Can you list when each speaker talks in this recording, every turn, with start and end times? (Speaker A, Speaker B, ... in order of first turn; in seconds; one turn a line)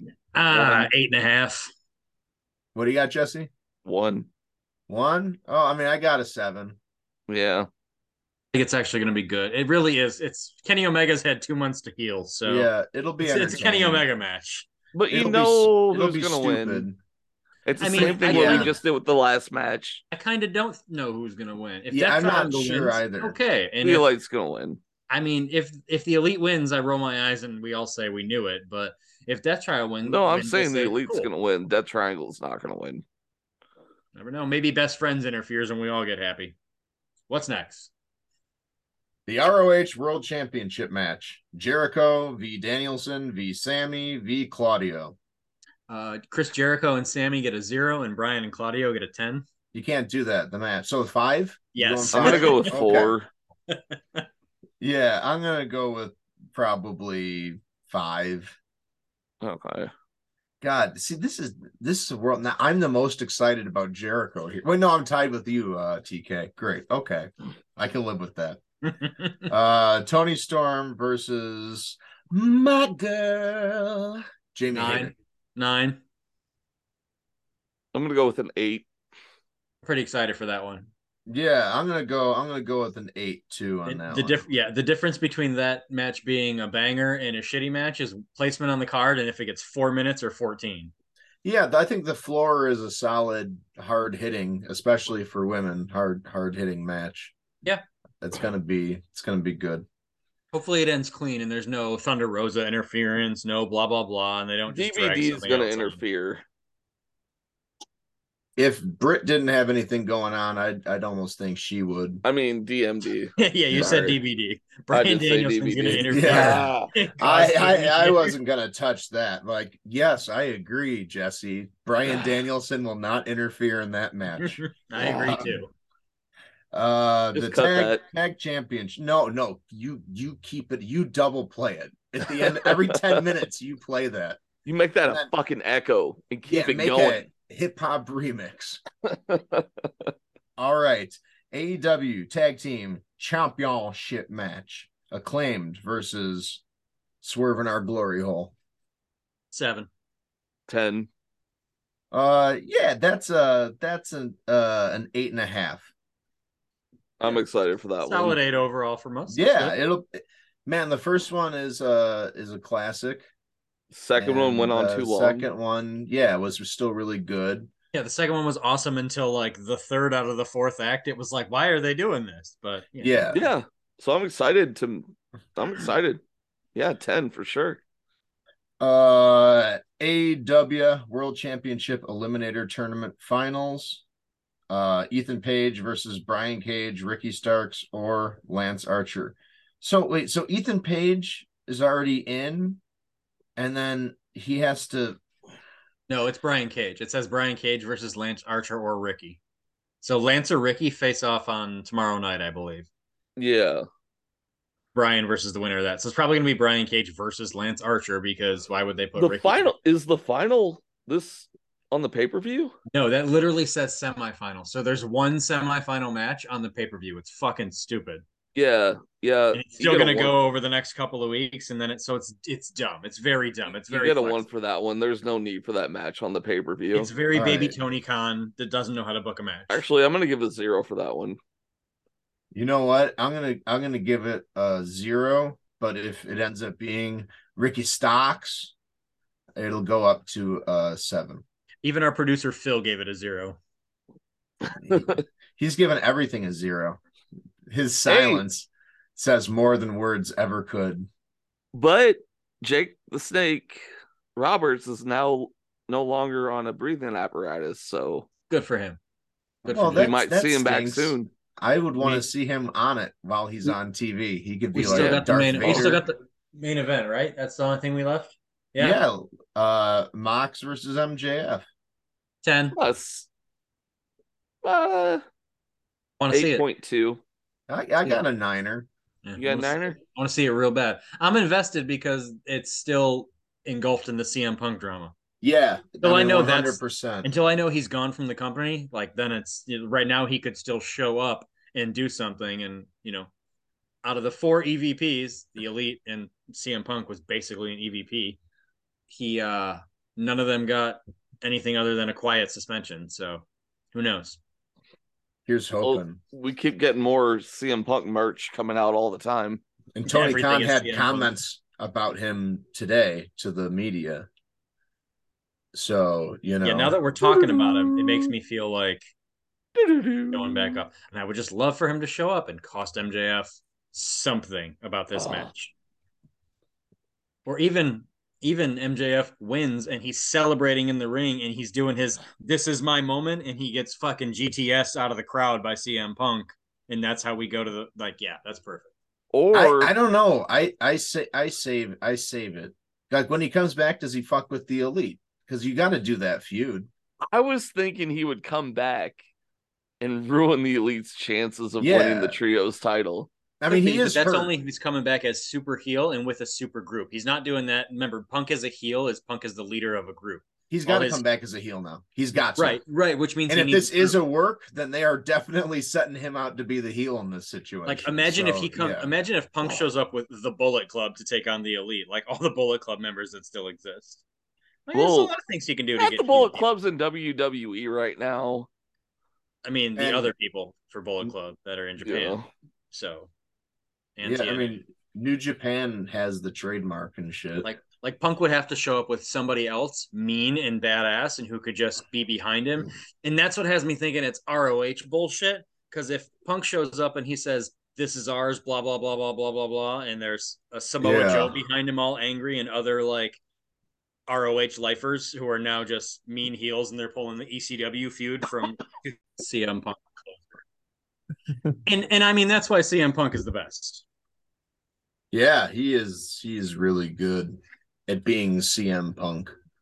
Speaker A: 0.3-1.7
Speaker B: 0.5-0.9
Speaker C: 2.8-3.5
Speaker B: 3.9-4.3
Speaker C: 4.9-6.8
Speaker B: 7.3-7.7
Speaker A: 8.5-12.7
Speaker C: 12.4-14.1
Speaker A: 13.2-14.7
Speaker B: 14.9-16.9
Speaker C: 15.1-17.0
Speaker B: 17.7-20.0
Speaker A: 17.8-18.7
Speaker C: 18.0-18.7
Speaker A: 20.1-24.1
Speaker C: 21.9-23.4
Speaker B: 23.8-24.8
Speaker A: 25.1-31.3
Speaker B: 30.1-33.0
Speaker A: 34.2-36.5
Speaker A: 37.3-37.9
Speaker C: 39.3-45.2
Speaker A: 45.9-49.4
Speaker C: 49.7-53.1
Speaker A: 51.8-52.7
Speaker B: 52.1-53.3
Speaker C: 54.8-58.6
Speaker B: 59.4-59.9
Speaker C: 60.6-68.6
Speaker C: 69.5-75.1
Speaker A: 74.7-76.0
Speaker B: 77.9-78.9
Speaker A: 79.8-80.9
Speaker C: 81.3-84.5
Speaker A: 83.9-90.9
Speaker C: 91.4-97.3
Speaker C: 98.2-99.9
Speaker A: 100.5-106.0
Speaker B: 104.7-106.4
Speaker C: 108.6-112.2
Speaker B: 112.2-114.2
Speaker A: 113.4-118.3
Speaker B: 114.9-116.9
Speaker C: 116.1-125.6
Speaker A: 124.4-125.7
Speaker B: 125.0-125.4
Speaker C: 126.7-134.4
Speaker B: 127.3-128.0
Speaker B: 132.4-133.2
Speaker B: 134.7-137.3
Speaker C: 136.4-138.8
Speaker B: 139.1-140.1
Speaker C: 140.6-146.6
Speaker C: 147.2-148.5
Speaker A: 149.5-149.9
Speaker B: 150.7-151.1
Speaker C: 152.1-155.9
Speaker B: 157.2-158.4
Speaker A: 158.1-159.8
Speaker C: 159.3-163.3
Speaker B: 163.9-165.5
Speaker C: 164.2-167.7
Speaker A: 167.9-173.3
Speaker C: 173.0-173.4
Speaker B: 173.3-176.2
Speaker B: 176.8-177.8
Speaker C: 178.8-184.0
Speaker C: 184.7-192.8
Speaker C: 193.6-195.2
Speaker A: 196.1-199.4
Speaker A: 200.0-202.9
Speaker B: 203.4-203.8
Speaker A: 204.9-209.7
Speaker B: 209.2-212.8
Speaker A: 212.9-218.2
Speaker B: 218.6-220.4
Speaker A: 219.5-224.4
Speaker B: 223.9-227.1
Speaker A: 226.9-229.8
Speaker C: 227.3-227.8
Speaker B: 229.7-231.4
Speaker C: 232.5-238.7
Speaker C: 239.6-241.4
Speaker A: 241.8-243.6
Speaker C: 244.8-247.0
Speaker B: 244.9-245.2
Speaker C: 247.7-251.1
Speaker B: 248.1-248.4
Speaker B: 251.7-258.3
Speaker A: 258.5-259.0
Speaker A: 259.6-260.1
Speaker C: 259.7-266.0
Speaker B: 259.9-261.3
Speaker A: 264.7-269.0
Speaker B: 264.8-266.0
Speaker C: 268.8-271.6
Speaker A: 272.4-272.8
Speaker B: 272.8-273.3
Speaker B: 274.6-275.2
Speaker A: 276.2-276.6
Speaker B: 276.3-277.2
Speaker C: 277.7-278.9
Speaker A: 279.2-285.1
Speaker B: 279.4-280.0
Speaker C: 285.4-287.3
Speaker A: 286.0-293.3
Speaker A: 294.0-298.4
Speaker A: 299.1-304.4
Speaker C: 305.5-306.2
Speaker B: 305.8-309.6
Speaker C: 309.9-314.3
Speaker A: 310.1-311.3
Speaker C: 315.7-317.0
Speaker A: 316.6-319.0
Speaker B: 317.2-318.3
Speaker B: 319.8-320.8
Speaker A: 320.3-325.7
Speaker B: 325.1-325.5
Speaker A: 327.5-338.9
Speaker B: 339.3-339.9
Speaker C: 339.5-346.9
Speaker B: 347.3-349.2
Speaker B: 350.0-353.3
Speaker C: 351.8-352.4
Speaker C: 353.6-354.5
Speaker A: 353.7-361.2
Speaker C: 360.7-362.8
Speaker A: 362.6-364.2
Speaker C: 363.5-369.1
Speaker A: 367.9-374.2
Speaker A: 374.9-376.6
Speaker B: 374.9-375.3
Speaker B: 376.0-378.7
Speaker A: 379.6-382.4
Speaker C: 380.0-380.3
Speaker B: 382.0-382.5
Speaker A: 382.9-383.3
Speaker A: 384.2-384.7
Speaker C: 384.2-387.7
Speaker A: 387.6-403.4
Speaker C: 401.0-401.6
Speaker A: 404.3-410.5
Speaker A: 411.9-414.0
Speaker C: 415.3-419.5